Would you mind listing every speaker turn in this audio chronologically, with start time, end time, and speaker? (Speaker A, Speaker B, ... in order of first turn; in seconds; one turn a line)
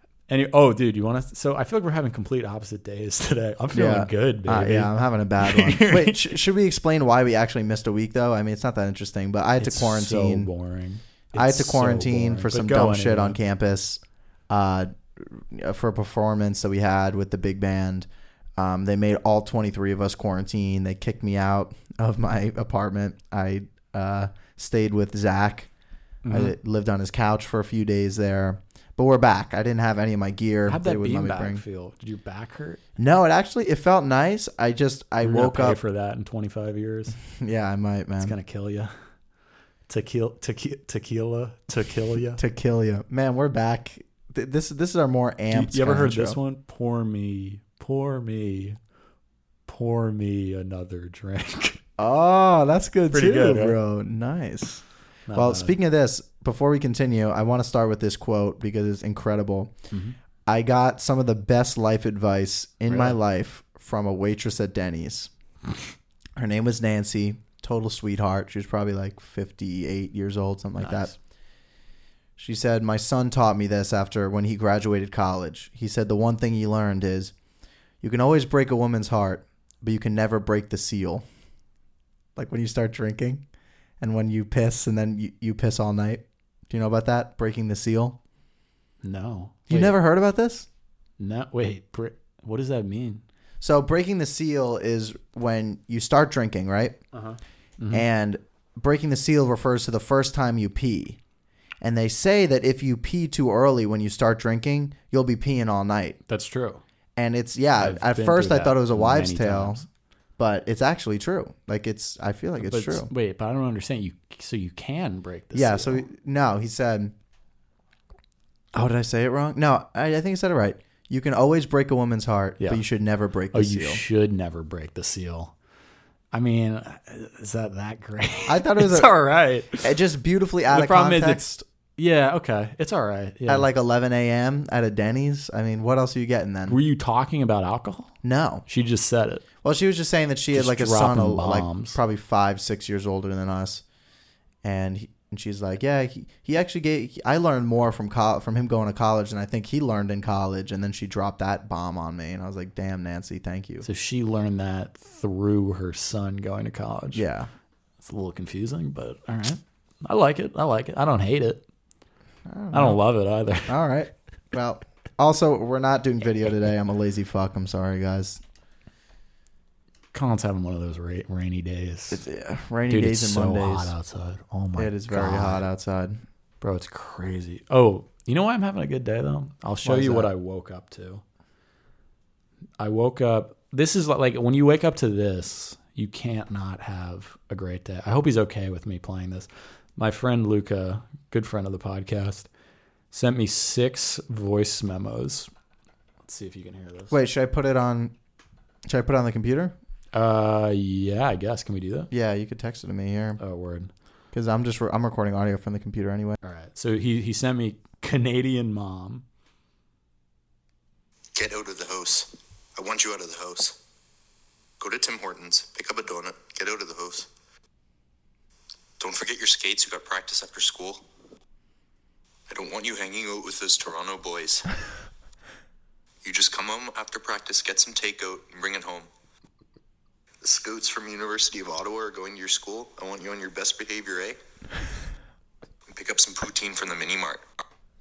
Speaker A: 0.3-6.4
Speaker B: 3.7-10.5
Speaker A: 9.6-13.4
Speaker B: 11.3-25.7
Speaker A: 26.2-26.6
Speaker B: 26.3-31.6
Speaker A: 30.7-32.8
Speaker B: 33.0-35.8
Speaker A: 35.2-37.2
Speaker B: 37.3-38.4
Speaker A: 38.2-39.0
Speaker A: 39.9-42.4
Speaker B: 42.4-46.4
Speaker A: 45.5-48.8
Speaker A: 49.7-51.8
Speaker B: 52.0-59.8
Speaker A: 53.1-53.8
Speaker A: 55.3-55.8
Speaker B: 60.5-65.3
Speaker A: 62.9-63.2
Speaker B: 66.4-71.1
Speaker A: 70.8-71.1
Speaker B: 72.4-77.3
Speaker B: 78.0-81.2
Speaker B: 82.4-83.4
Speaker B: 84.0-88.2
Speaker A: 89.0-90.0
Speaker B: 89.7-90.7
Speaker A: 91.2-93.2
Speaker B: 93.6-97.0
Speaker A: 97.1-98.1
Speaker B: 97.9-101.2
Speaker B: 101.8-106.2
Speaker A: 106.3-106.8
Speaker B: 107.2-109.8
Speaker A: 107.8-109.8
Speaker B: 110.4-113.1
Speaker A: 112.6-116.1
Speaker B: 115.5-117.1
Speaker B: 118.7-124.0
Speaker A: 123.5-125.5
Speaker A: 126.3-130.0
Speaker B: 128.5-129.1
Speaker B: 129.8-131.6
Speaker A: 130.7-131.5
Speaker A: 132.0-133.7
Speaker B: 133.5-136.8
Speaker A: 136.7-138.2
Speaker B: 138.2-138.7
Speaker A: 138.7-139.4
Speaker B: 139.6-143.8
Speaker A: 140.5-142.0
Speaker B: 144.6-153.9
Speaker A: 153.8-157.2
Speaker B: 157.1-157.5
Speaker A: 158.0-161.6
Speaker B: 162.5-163.0
Speaker A: 162.7-163.8
Speaker B: 163.7-168.4
Speaker A: 170.1-172.2
Speaker B: 172.1-173.9
Speaker A: 172.9-175.7
Speaker B: 174.8-176.2
Speaker A: 176.6-181.2
Speaker B: 179.8-180.3
Speaker A: 182.8-192.5
Speaker A: 193.1-195.5
Speaker A: 196.2-197.2
Speaker B: 197.1-198.1
Speaker B: 198.9-199.8
Speaker A: 200.1-202.1
Speaker B: 202.1-203.4
Speaker A: 203.4-203.9
Speaker B: 204.3-206.4
Speaker A: 206.4-209.2
Speaker C: 211.3-213.8
Speaker C: 214.8-217.3
Speaker C: 219.0-221.0
Speaker C: 222.5-224.7
Speaker C: 226.2-229.1
Speaker C: 230.4-234.4
Speaker C: 235.9-237.4